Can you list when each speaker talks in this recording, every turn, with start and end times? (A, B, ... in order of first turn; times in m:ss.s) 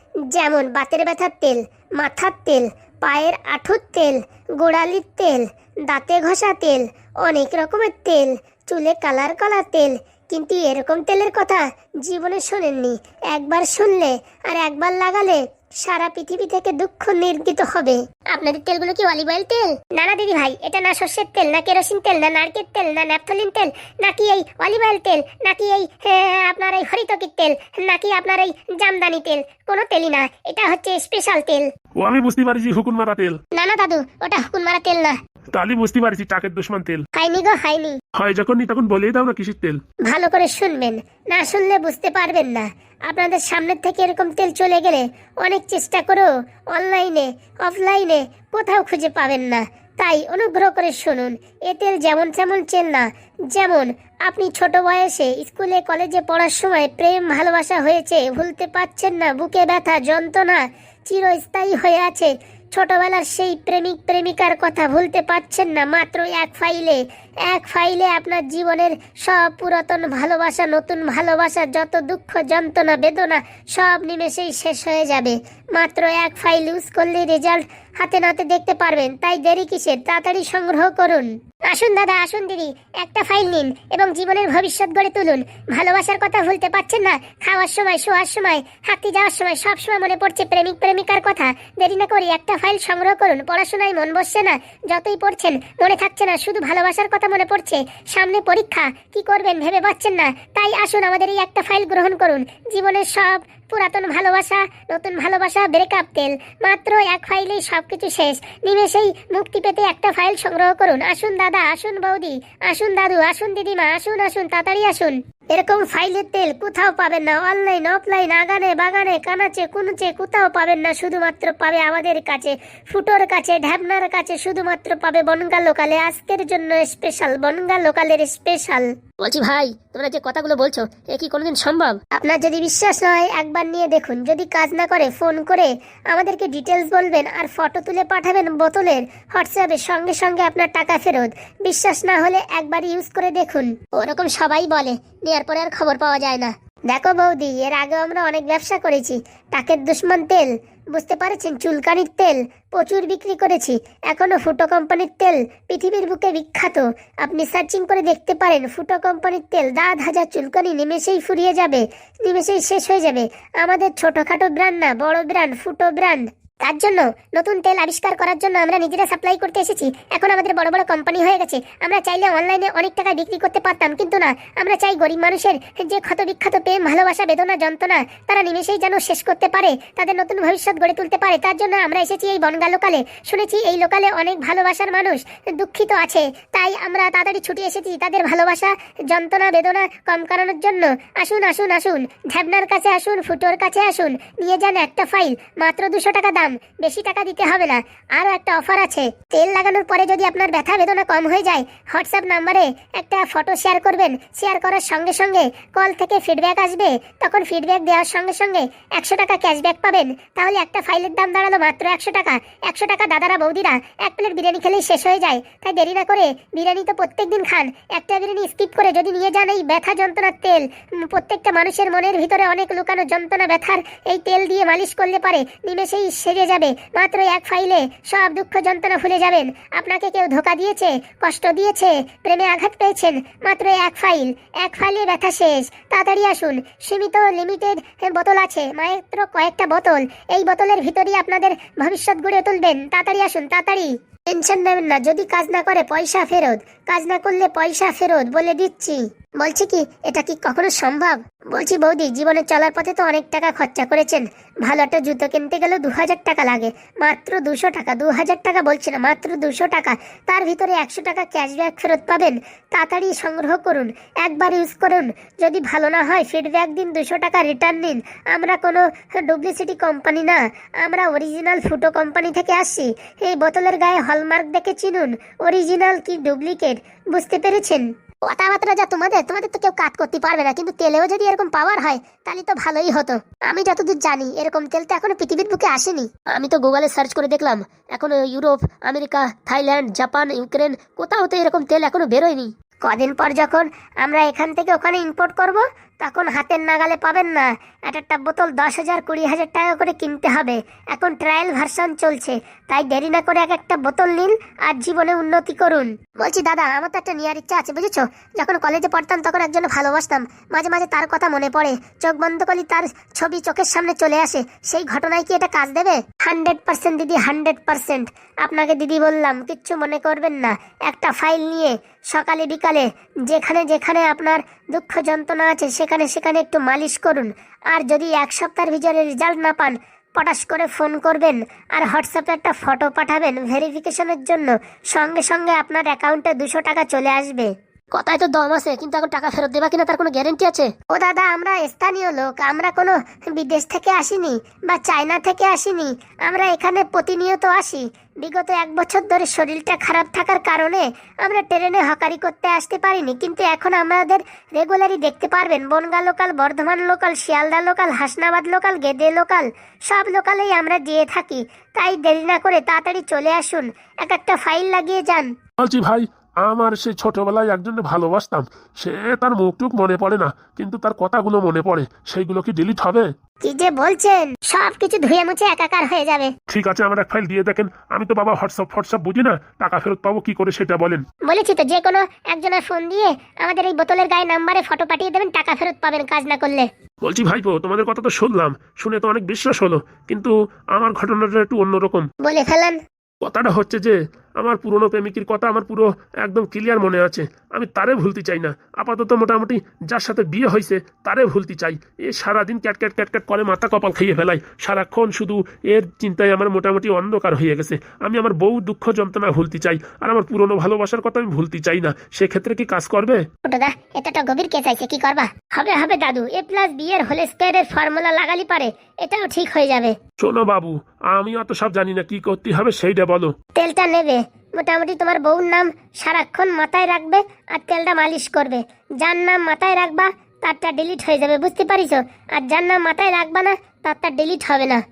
0:00.3-0:31.7 A
0:32.0-0:33.4 B
0:33.5-0:35.2 A
0:35.5-0:37.0 B
0:37.1-0:38.0 A
0:38.1-0:39.8 B
0:40.0-6:05.3 A
6:05.6-6:13.1 B
6:13.4-6:16.3 A
6:16.5-6:21.0 B
6:21.2-6:26.7 A
6:27.0-6:32.1 B
6:32.2-6:32.8 A
6:33.2-6:53.2 B
6:53.4-7:00.0 A
7:00.2-7:03.3 B
7:03.5-7:14.8 A